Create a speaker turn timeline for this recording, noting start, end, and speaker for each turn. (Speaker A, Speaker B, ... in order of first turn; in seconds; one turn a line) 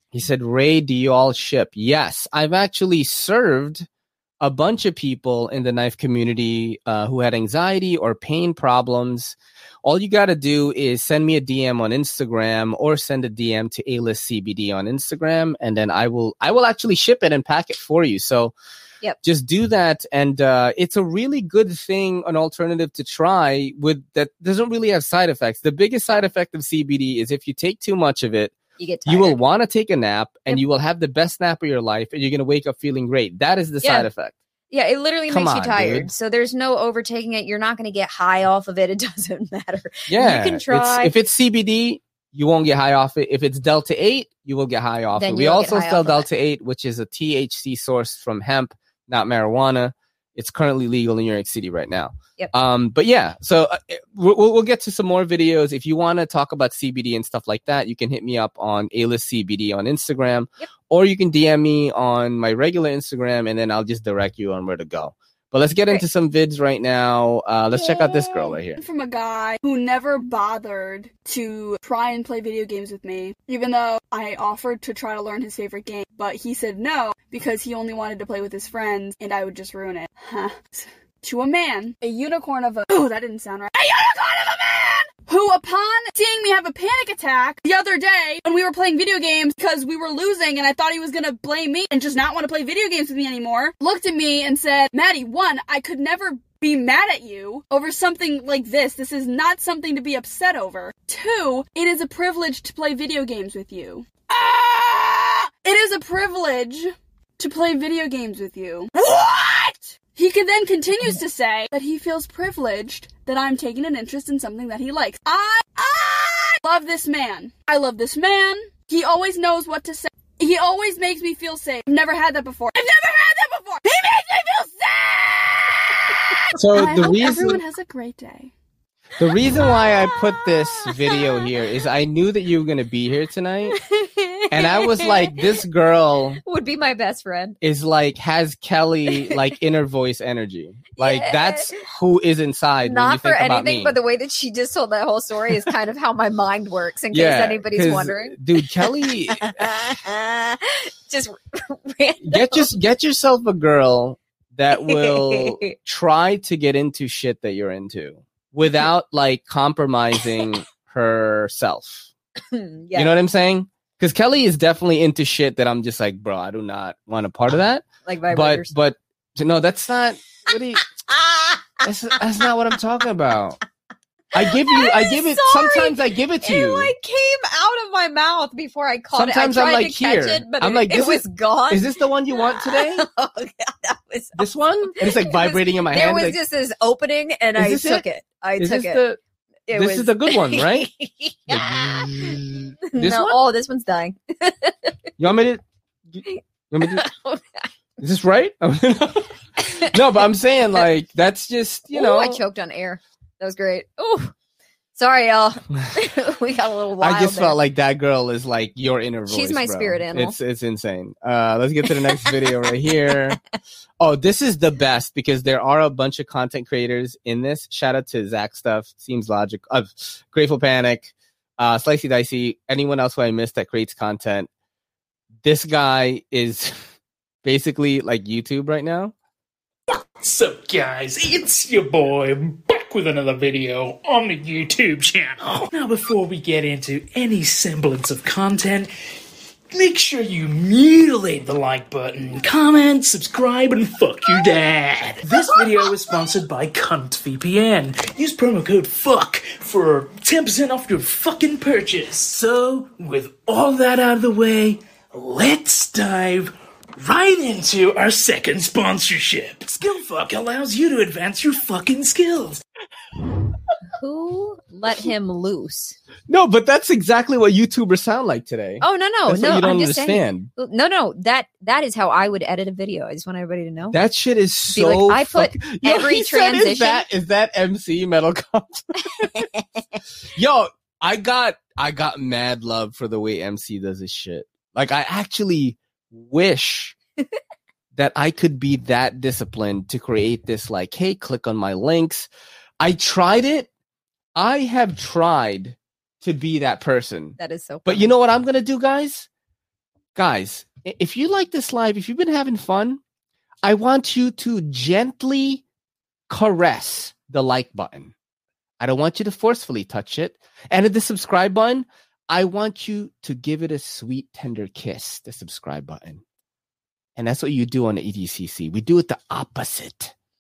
Speaker A: 0.1-3.9
Speaker A: 4.4-18.5
Speaker A: 19.2-28.6
Speaker B: 28.8-29.4
Speaker A: 29.1-34.4
Speaker B: 33.8-34.1
Speaker B: 34.7-41.2
Speaker A: 35.3-36.1
Speaker A: 40.1-68.8
Speaker B: 45.1-46.3
Speaker C: 68.8-126.2
Speaker A: 126.5-127.6
Speaker C: 126.7-128.5
Speaker A: 129.2-133.8
Speaker B: 130.9-131.2
Speaker B: 133.9-135.4
Speaker A: 134.5-136.4
Speaker B: 136.5-137.6
Speaker A: 137.6-144.0
Speaker B: 141.0-141.7
Speaker B: 142.8-148.4
Speaker A: 147.1-149.7
Speaker B: 149.3-152.7
Speaker A: 152.2-162.1
Speaker B: 154.7-155.7
Speaker B: 162.5-163.1
Speaker A: 162.9-170.8
Speaker B: 168.1-168.7
Speaker B: 171.3-171.6
Speaker A: 171.8-173.6
Speaker A: 174.3-176.9
Speaker B: 174.4-184.5
Speaker A: 179.1-183.1
Speaker A: 184.4-186.4
Speaker B: 185.0-189.0
Speaker A: 187.6-188.1
Speaker A: 188.6-189.2
Speaker B: 189.7-194.9
Speaker A: 189.7-190.9
Speaker A: 191.5-193.4
Speaker A: 195.2-197.1
Speaker B: 196.3-197.7
Speaker A: 198.0-202.4
Speaker B: 201.9-204.3
Speaker B: 205.0-207.6
Speaker A: 207.0-213.4
Speaker B: 209.3-210.4
Speaker A: 214.0-224.5
Speaker A: 225.4-226.8
Speaker A: 227.4-229.1
Speaker D: 229.9-238.9
Speaker D: 239.7-262.6
Speaker B: 263.9-266.0
Speaker A: 266.3-270.5
Speaker B: 268.8-274.0
Speaker A: 273.9-279.4
Speaker B: 274.7-277.1
Speaker B: 279.2-280.0
Speaker A: 280.4-287.0
Speaker A: 287.9-292.3
Speaker A: 292.8-293.7
Speaker A: 294.4-299.3
Speaker B: 297.4-298.1
Speaker A: 300.1-303.0
Speaker A: 303.6-305.6
Speaker A: 306.3-308.1
Speaker A: 308.8-316.2
Speaker A: 317.2-320.1